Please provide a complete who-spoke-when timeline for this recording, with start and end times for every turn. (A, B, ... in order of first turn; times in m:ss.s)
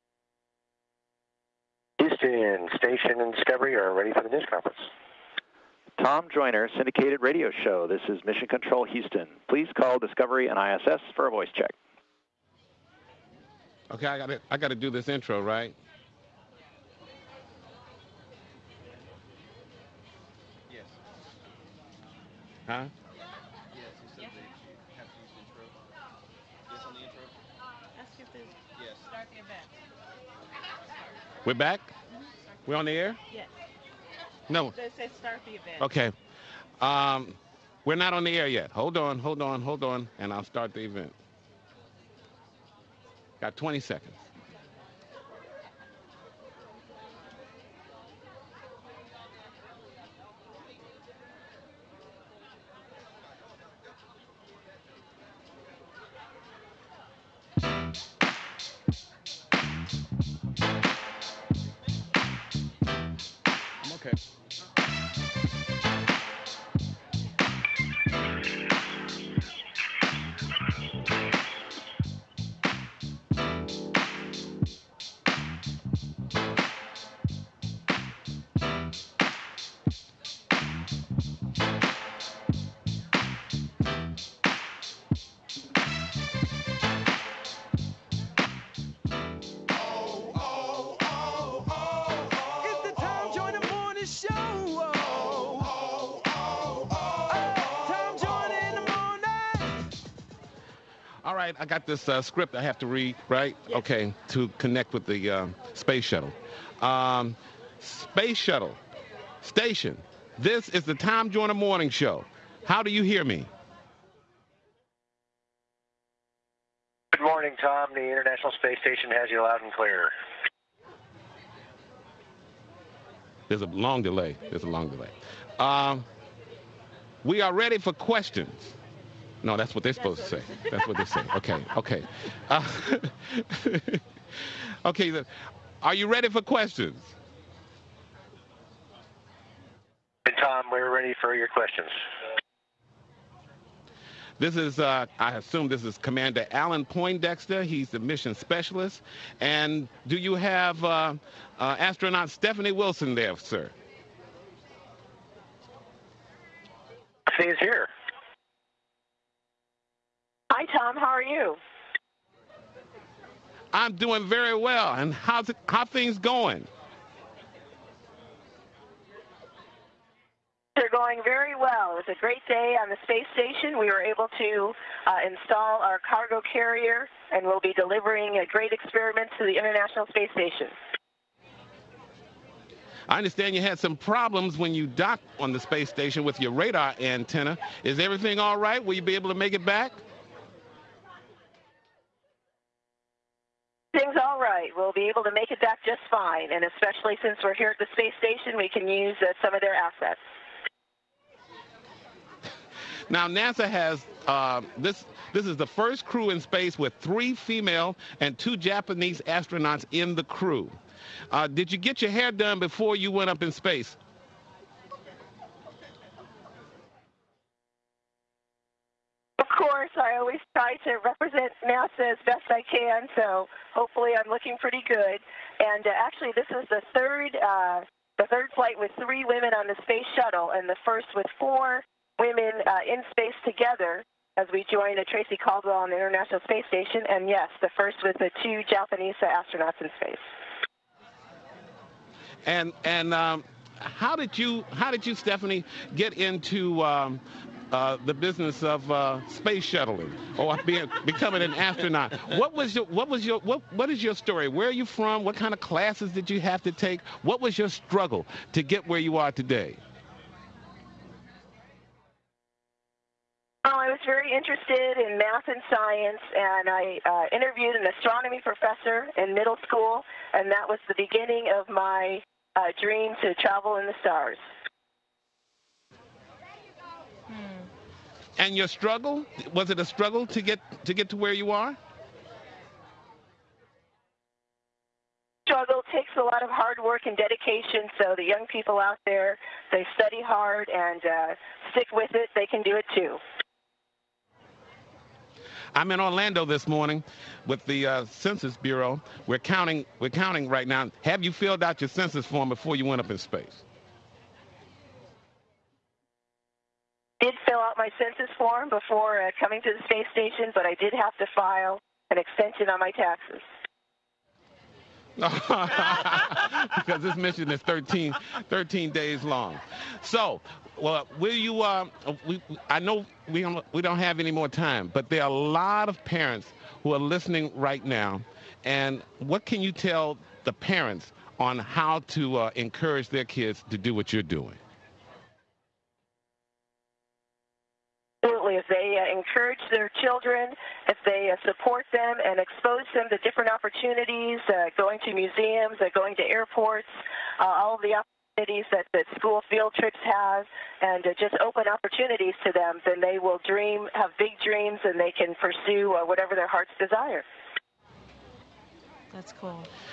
0:02.0-0:04.9 A
0:06.0-0:11.7 B
0:13.9-0:15.8 C
0:23.7-0:25.7 D
0:26.7-0:27.3 D
0:28.0-0:28.6 E
0:28.8-0:29.1 D
0:31.4-0:31.9 C
0:32.6-0:33.2 C
0:34.5-0:34.8 C
0:34.8-0:35.7 E
0:35.8-0:36.1 C
0:36.8-0:41.1 C
0:43.4-0:44.2 C
1:32.7-1:34.9 E
1:37.8-1:39.7 E
1:41.2-1:48.8 C
1:49.4-1:53.5 C
1:57.1-2:00.1 A
2:03.5-2:06.0 C
2:07.2-2:08.7 C
2:09.4-2:14.0 C
2:14.8-2:15.3 C
2:15.8-2:17.1 C
2:20.2-2:21.9 A
2:24.4-2:33.7 C
2:37.3-2:37.9 A
2:40.5-2:41.6 F
2:43.7-2:46.7 C
2:50.8-3:00.7 F
3:03.1-3:10.0 C
3:13.9-3:20.2 F
3:23.1-3:30.7 C
3:31.3-3:34.0 C
3:39.4-4:00.2 F
4:02.4-4:19.8 C
4:23.6-4:34.4 F
4:37.3-4:37.7 E
4:38.4-4:41.8 C
4:45.5-4:53.2 F
4:55.7-5:03.6 C
5:07.2-5:13.4 F
5:15.2-5:34.6 C
5:38.2-5:57.2 F
5:59.1-5:59.7 E